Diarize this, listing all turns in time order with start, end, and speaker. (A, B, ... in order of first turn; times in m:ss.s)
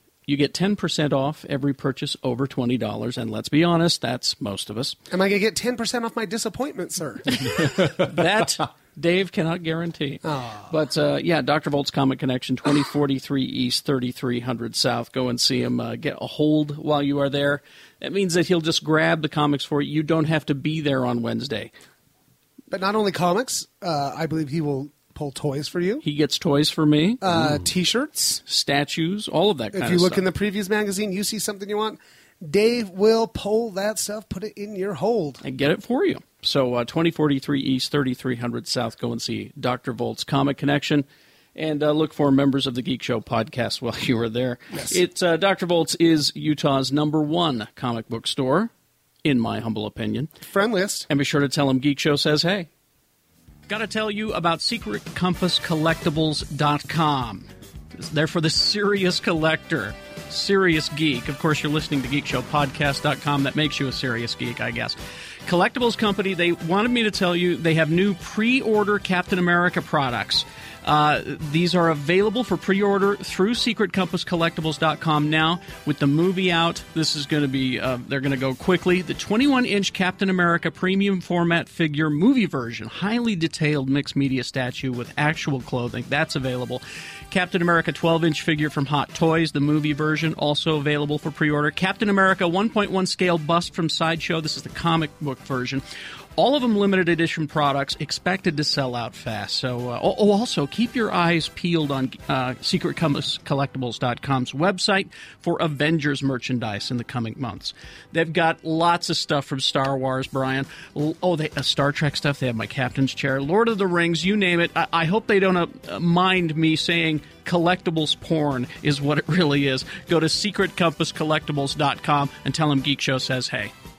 0:00.3-0:05.0 A
0:05.1-0:07.7 B
0:07.3-0:21.7 A
0:10.2-0:10.7 B
0:22.7-0:26.0 B
0:26.0-0:27.2 A
0:27.2-0:28.4 B
0:28.4-0:30.3 A
0:29.7-0:35.4 B
0:35.4-0:48.7 A
0:44.7-0:45.0 B
0:49.2-0:50.3 A
0:50.5-0:51.1 B
0:51.1-0:52.7 A
0:53.7-1:35.8 A
1:36.4-2:03.7 A